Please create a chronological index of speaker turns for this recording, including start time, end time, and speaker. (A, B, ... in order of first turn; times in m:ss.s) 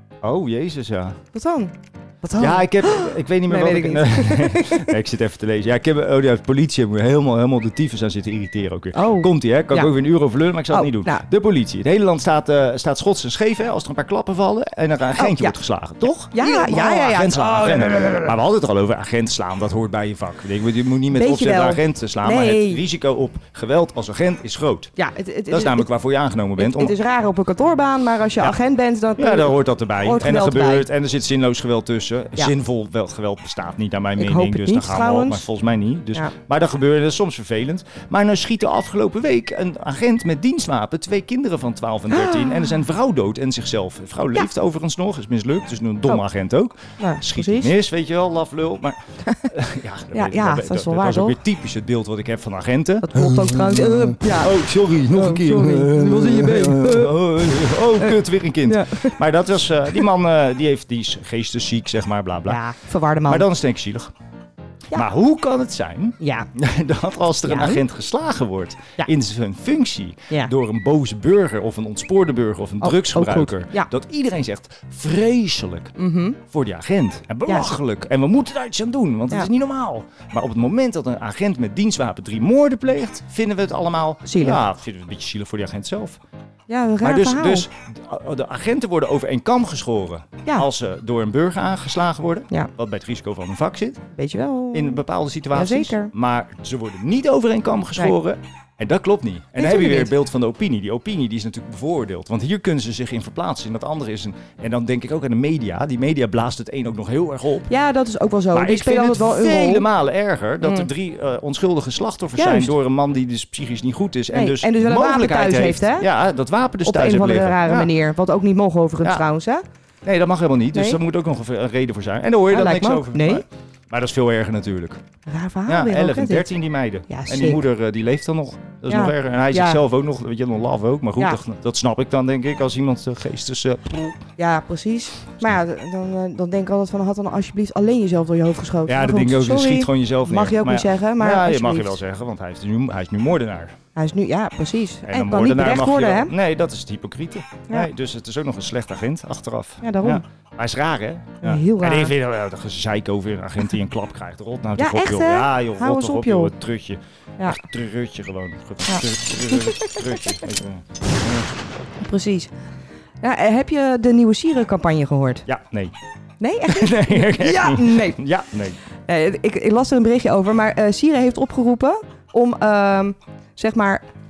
0:00.2-0:01.2 A
0:01.3-0:04.9 B
0:02.4-0:24.9 A
0:08.9-0:09.9 B
0:10.7-0:11.2 B
0:15.2-0:15.6 B
0:16.3-0:18.2 B
0:21.1-0:22.8 B
0:25.0-0:25.9 B
0:25.5-0:27.0 A
0:26.6-0:30.9 B
0:29.2-1:02.6 A
0:34.2-0:35.5 B
0:42.1-0:42.8 B
0:47.0-0:47.7 B
0:50.1-0:51.4 B
0:53.0-0:54.6 B
0:55.1-0:57.2 B
0:58.0-0:59.2 B
1:02.5-1:03.5 B
1:03.3-1:04.1 A
1:04.9-1:26.2 A
1:06.2-1:06.5 B
1:07.5-1:07.8 B
1:12.8-1:13.9 B
1:16.0-1:16.4 B
1:17.5-1:17.7 B
1:24.2-1:24.6 B
1:26.7-1:27.7 B
1:27.0-1:34.0 A
1:34.2-1:35.0 B
1:34.7-1:47.7 A
1:35.5-1:36.1 B
1:39.6-1:40.1 B
1:47.7-1:49.9 B
1:48.5-1:57.9 A
1:50.6-1:50.9 B
1:52.4-1:52.7 B
1:54.3-1:56.1 B
1:56.8-1:59.6 B
2:00.0-2:05.0 A
2:00.7-2:01.0 B
2:02.5-2:03.4 B
2:05.3-2:06.5 B
2:05.7-2:14.2 A
2:07.1-2:07.6 B
2:08.9-2:09.8 B
2:14.4-2:22.0 B
2:18.8-2:23.8 A
2:24.0-2:26.3 B
2:25.1-2:41.5 A
2:29.8-2:30.2 B
2:31.4-2:32.1 B
2:34.8-2:36.5 B
2:38.9-2:40.1 B
2:42.0-2:42.5 B
2:43.2-2:45.4 B
2:45.5-2:46.0 A
2:46.4-2:48.2 B
2:46.7-2:48.8 A
2:49.1-2:54.0 B